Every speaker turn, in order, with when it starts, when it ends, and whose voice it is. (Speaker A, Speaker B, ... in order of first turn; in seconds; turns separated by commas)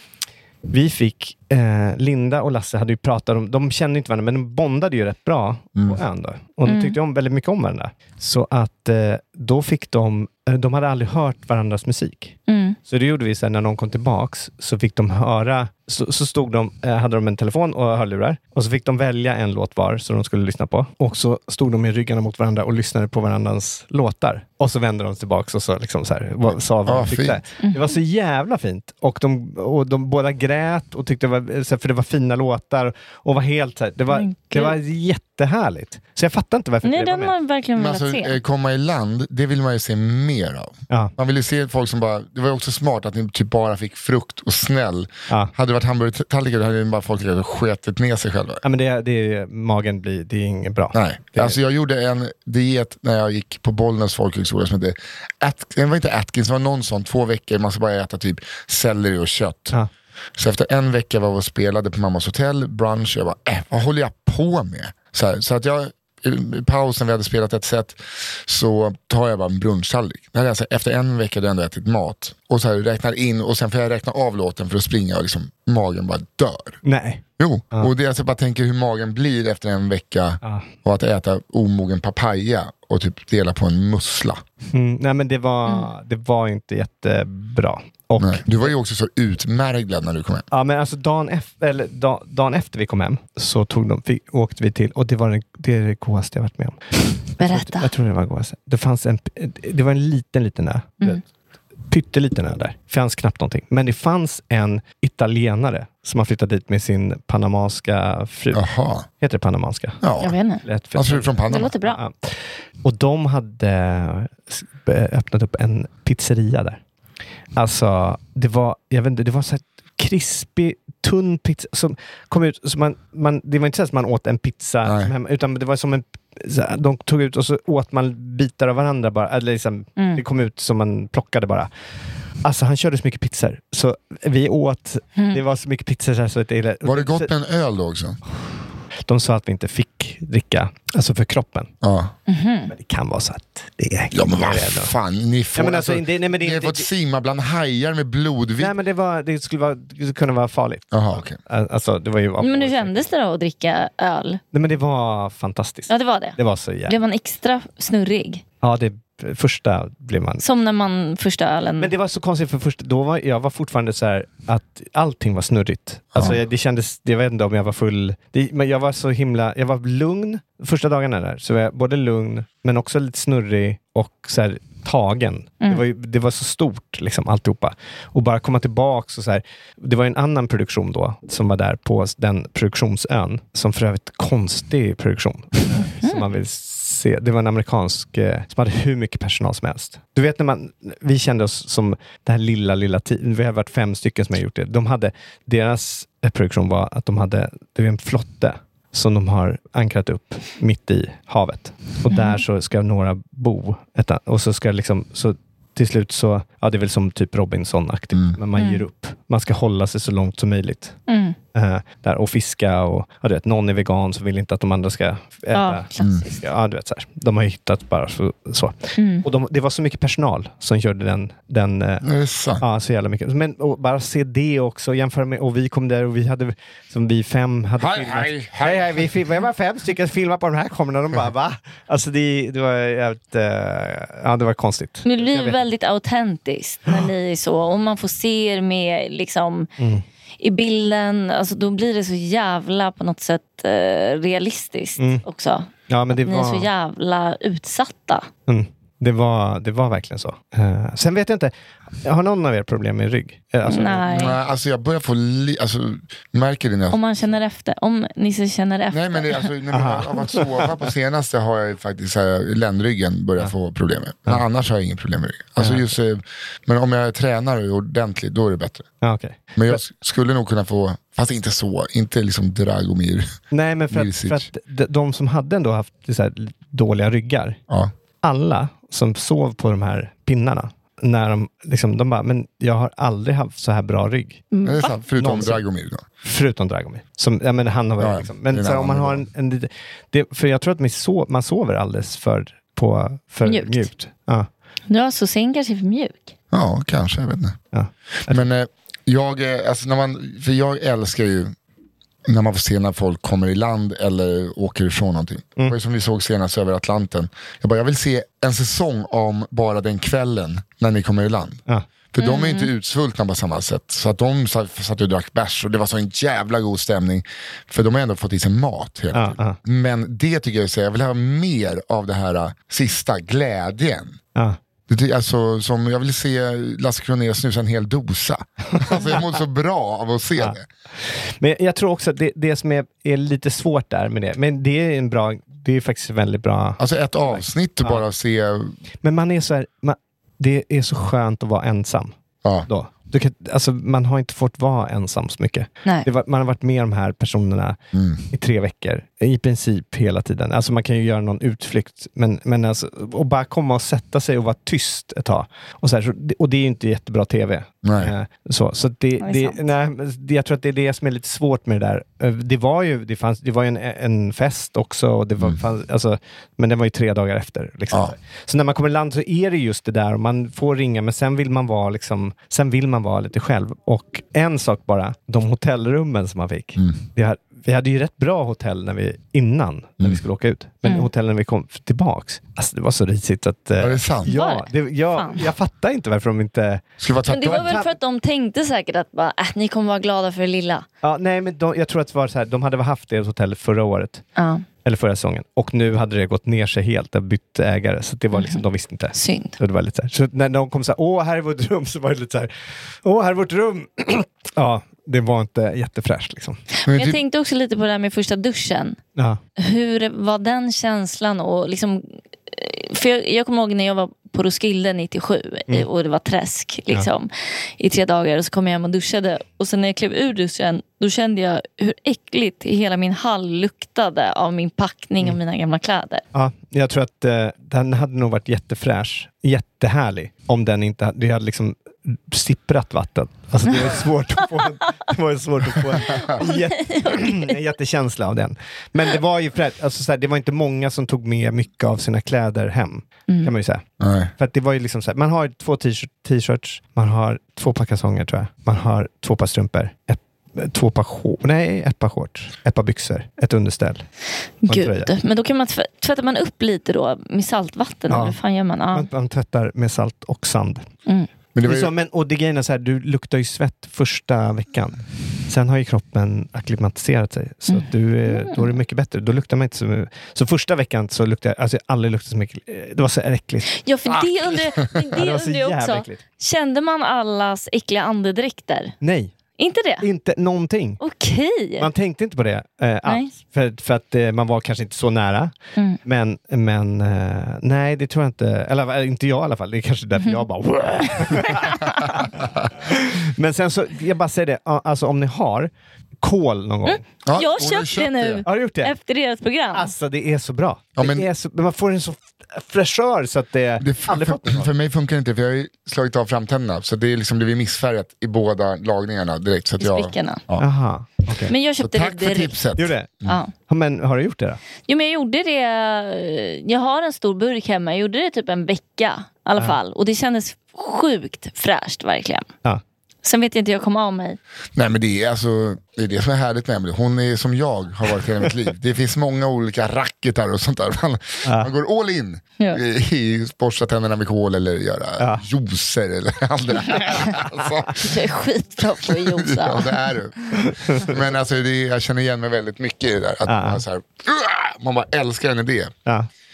Speaker A: 0.7-37.3, Speaker B: 6.7-7.0, Speaker B: 12.5-12.8, Speaker C: 26.9-27.4, Speaker B: 27.6-27.9, Speaker B: 34.1-34.8, Speaker B: 36.8-38.4, Speaker C: 37.8-48.6, Speaker A: 48.6-51.5, Speaker C: 50.9-59.7, Speaker C: 60.4-76.8, Speaker A: 76.8-77.9, Speaker C: 77.4-84.4, Speaker A: 84.7-88.7, Speaker C: 88.2-90.5, Speaker A: 90.5-101.2, Speaker B: 97.4-97.9, Speaker A: 101.9-108.6, Speaker C: 108.5-109.1, Speaker A: 109.2-110.0, Speaker C: 110.0-110.3, Speaker B: 110.2-110.6, Speaker A: 110.6-116.8, Speaker C: 110.9-111.7, Speaker B: 111.5-112.0, Speaker A: 117.5-131.7, Speaker C: 124.8-125.1, Speaker A: 132.4-137.3, Speaker C: 136.8-138.2, Speaker A: 139.1-141.7, Speaker C: 141.8-142.1, Speaker B: 142.3-142.7, Speaker A: 142.7-144.9, Speaker C: 144.1-148.7, Speaker A: 145.6-146.9, Speaker A: 148.6-153.1, Speaker C: 150.9-151.4, Speaker B: 152.4-154.4, Speaker A: 154.5-156.9, Speaker B: 155.9-158.4, Speaker A: 158.6-160.4, Speaker B: 160.4-161.9, Speaker A: 161.8-210.9, Speaker B: 202.1-202.4, Speaker B: 208.6-208.8, Speaker B: 211.1-211.4, Speaker A: 211.5-222.1, Speaker B: 215.5-216.3, Speaker B: 219.0-219.2, Speaker C: 222.0-222.6, Speaker A: 222.6-235.6, Speaker C: 227.8-229.1, Speaker B: 235.1-239.7, Speaker A: 239.8-240.0, Speaker B: 240.4-248.3, Speaker A: 245.0-245.2, Speaker A: 245.9-246.7, Speaker A: 248.5-251.5, Speaker A: 252.0-254.3, Speaker B: 253.7-254.4, Speaker C: 254.0-257.0, Speaker B: 256.9-259.5, Speaker C: 258.9-268.9, Speaker A: 259.7-260.6, Speaker A: 265.6-265.9, Speaker A: 269.0-269.8, Speaker C: 269.6-274.5, Speaker A: 273.5-277.6, Speaker A: 278.2-284.5, Speaker B: 284.5-284.9, Speaker C: 284.6-286.1, Speaker A: 285.2-285.6, Speaker A: 286.2-294.5, Speaker C: 288.0-289.2, Speaker B: 293.4-293.9, Speaker B: 294.9-296.3, Speaker C: 296.5-297.6, Speaker A: 297.7-298.5, Speaker C: 298.3-301.6, Speaker C: 302.3-311.6, Speaker C: 312.1-324.2, Speaker B: 312.2-312.7, Speaker A: 319.1-319.6, Speaker C: 324.9-330.6, Speaker A: 328.7-329.1, Speaker A: 330.4-338.0, Speaker C: 336.8-338.8, Speaker A: 339.0-342.1, Speaker A: 342.6-347.8, Speaker C: 347.9-348.2, Speaker A: 348.3-387.9, Speaker C: 357.8-358.1, Speaker B: 359.2-359.6, Speaker C: 383.8-384.3, Speaker B: 384.3-385.5, Speaker C: 387.0-387.8, Speaker B: 387.3-390.9, Speaker A: 391.0-394.2, Speaker B: 394.4-394.6, Speaker A: 394.8-406.6, Speaker B: 398.3-398.6, Speaker B: 399.1-399.6, Speaker B: 406.8-409.0, Speaker C: 406.9-407.2, Speaker B: 409.6-426.2, Speaker A: 426.3-443.8, Speaker B: 436.2-437.6, Speaker C: 444.0-444.3, Speaker A: 444.4-454.1, Speaker B: 454.6-459.1, Speaker A: 454.7-455.1, Speaker A: 458.1-458.4, Speaker A: 458.9-460.9, Speaker C: 461.6-461.9, Speaker A: 461.6-474.2, Speaker B: 467.7-468.7, Speaker B: 473.8-478.9, Speaker A: 474.8-476.2, Speaker A: 479.0-479.3, Speaker B: 479.6-480.1, Speaker A: 480.0-481.0, Speaker B: 481.0-481.9, Speaker A: 481.8-492.3, Speaker B: 483.1-483.3, Speaker B: 491.3-492.3, Speaker A: 492.8-495.7, Speaker A: 496.2-497.0, Speaker B: 496.9-499.9, Speaker C: 497.2-498.4, Speaker A: 498.4-498.9, Speaker A: 499.7-504.7, Speaker C: 501.0-501.3, Speaker C: 503.8-510.6, Speaker B: 509.8-510.4, Speaker A: 510.6-511.5, Speaker B: 511.5-512.6, Speaker C: 511.8-513.4, Speaker A: 512.8-513.1, Speaker B: 513.2-513.5, Speaker A: 513.7-514.6, Speaker B: 514.9-522.5, Speaker B: 523.2-524.4, Speaker C: 524.7-538.2, Speaker A: 531.4-531.7, Speaker A: 535.2-535.4, Speaker B: 538.0-540.0, Speaker C: 539.0-545.9, Speaker A: 540.6-541.1, Speaker A: 543.5-543.8